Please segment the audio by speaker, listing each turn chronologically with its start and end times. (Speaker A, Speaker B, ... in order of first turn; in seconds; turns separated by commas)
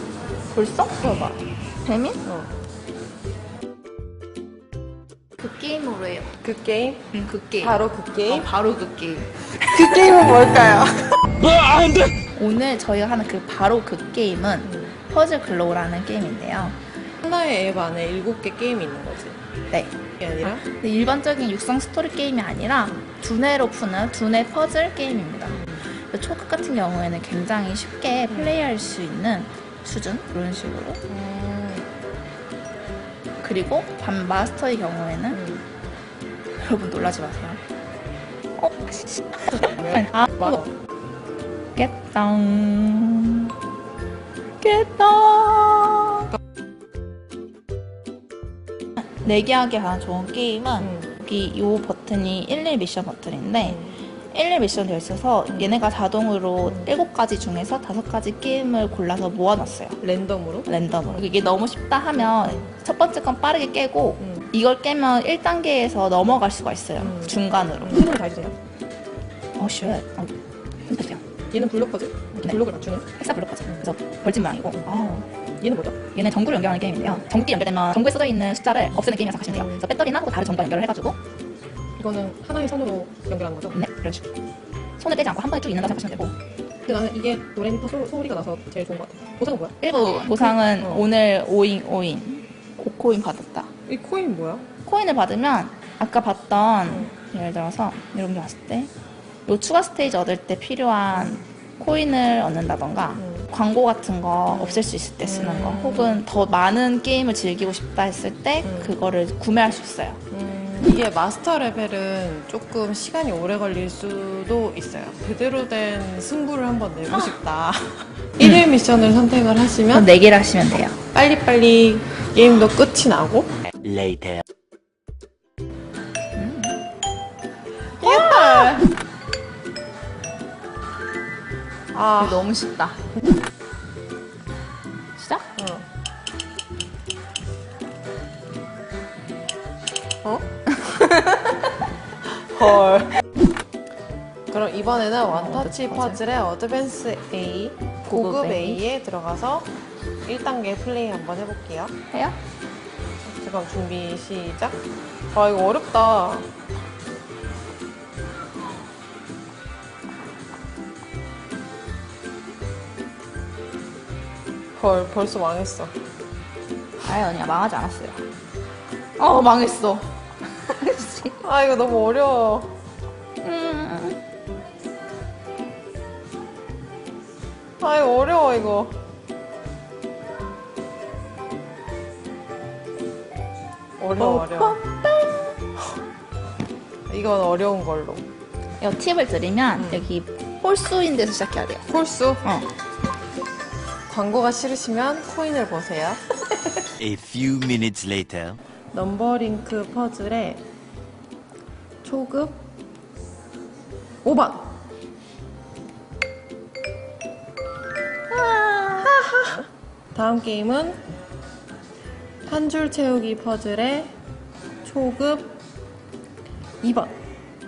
Speaker A: 0.5-1.1, Speaker B: 1.0-1.3, Speaker A: 1.8-2.2, Speaker B: 2.2-2.5, Speaker A: 5.4-6.3, Speaker B: 6.4-7.1, Speaker A: 7.1-10.1, Speaker B: 7.6-8.5, Speaker B: 9.7-11.6, Speaker A: 12.3-16.8, Speaker B: 14.7-14.9, Speaker B: 17.2-19.4, Speaker A: 19.7-31.0, Speaker B: 20.2-20.7, Speaker B: 25.6-25.8, Speaker B: 31.1-31.9, Speaker A: 33.4-35.4, Speaker B: 35.3-35.6, Speaker A: 36.6-37.6, Speaker A: 38.6-40.6, Speaker B: 39.5-40.7, Speaker A: 41.8-43.5, Speaker A: 44.6-46.2, Speaker A: 49.0-60.0, Speaker B: 50.8-51.1, Speaker B: 60.0-61.2, Speaker A: 60.6-68.2, Speaker B: 62.2-62.7, Speaker B: 67.0-68.5, Speaker A: 69.6-70.3, Speaker A: 70.8-71.2, Speaker B: 71.5-73.0, Speaker A: 72.4-81.2, Speaker B: 79.5-79.8, Speaker B: 82.0-83.8, Speaker A: 83.7-84.2, Speaker A: 85.0-86.3, Speaker B: 86.9-89.7, Speaker A: 89.8-93.7, Speaker B: 90.8-91.0, Speaker B: 93.9-94.6, Speaker A: 94.8-98.9, Speaker A: 99.5-110.2, Speaker B: 103.2-103.5, Speaker B: 104.5-106.2, Speaker B: 108.6-108.9, Speaker B: 110.3-120.1, Speaker A: 119.9-121.0, Speaker B: 121.1-123.5, Speaker C: 123.8-124.4, Speaker A: 126.3-126.8, Speaker B: 128.0-128.9, Speaker A: 128.0-128.9, Speaker B: 131.9-132.5, Speaker A: 132.2-133.0, Speaker A: 135.2-135.4, Speaker B: 135.6-135.8, Speaker B: 140.2-140.5, Speaker A: 140.8-141.7, Speaker B: 142.5-143.1, Speaker B: 144.5-149.7, Speaker A: 145.3-146.2, Speaker A: 148.1-148.8, Speaker B: 150.2-151.9, Speaker A: 152.1-152.4, Speaker B: 153.2-156.5, Speaker B: 164.8-165.9, Speaker A: 167.0-168.2, Speaker A: 169.2-170.1, Speaker A: 170.6-171.4, Speaker B: 171.4-172.7, Speaker A: 173.4-174.2, Speaker B: 177.8-178.9, Speaker B: 184.0-184.8, Speaker A: 184.2-185.5, Speaker B: 187.1-188.2, Speaker A: 188.8-191.9, Speaker B: 189.8-190.1, Speaker B: 191.9-192.4, Speaker A: 192.4-192.7, Speaker B: 194.1-196.2, Speaker C: 197.0-198.6, Speaker B: 198.9-200.6, Speaker B: 202.0-202.6, Speaker B: 204.2-204.8, Speaker A: 208.3-209.3, Speaker B: 209.0-209.6, Speaker B: 210.1-211.0, Speaker B: 212.4-214.1, Speaker B: 214.8-215.5, Speaker B: 216.8-217.1